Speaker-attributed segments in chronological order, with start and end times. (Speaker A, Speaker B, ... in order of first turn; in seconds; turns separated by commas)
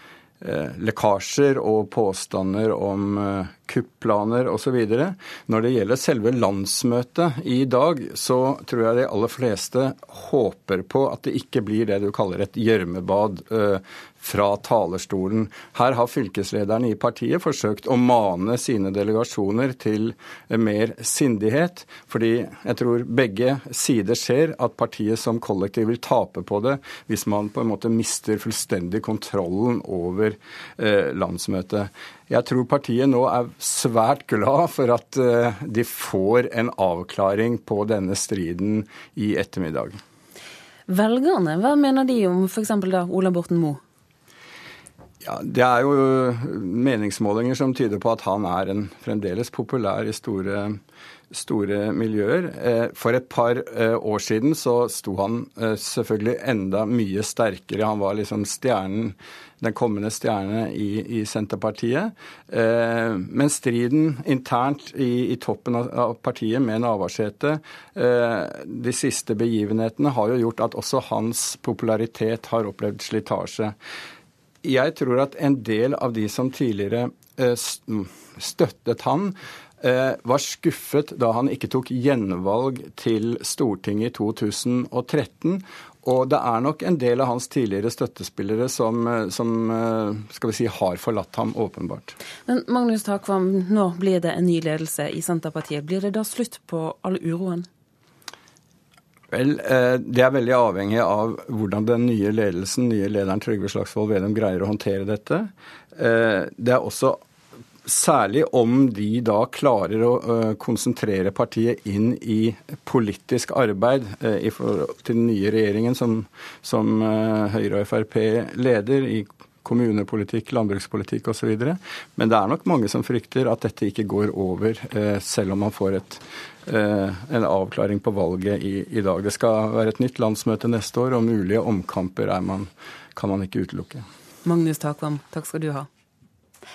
Speaker A: 0.4-40.0, Speaker B: 40.9-43.8, Speaker A: 45.2-50.8, Speaker A: 51.3-73.7, Speaker A: 74.6-92.1, Speaker B: 92.5-97.7, Speaker A: 99.3-107.2, Speaker A: 107.8-134.1, Speaker B: 134.4-135.9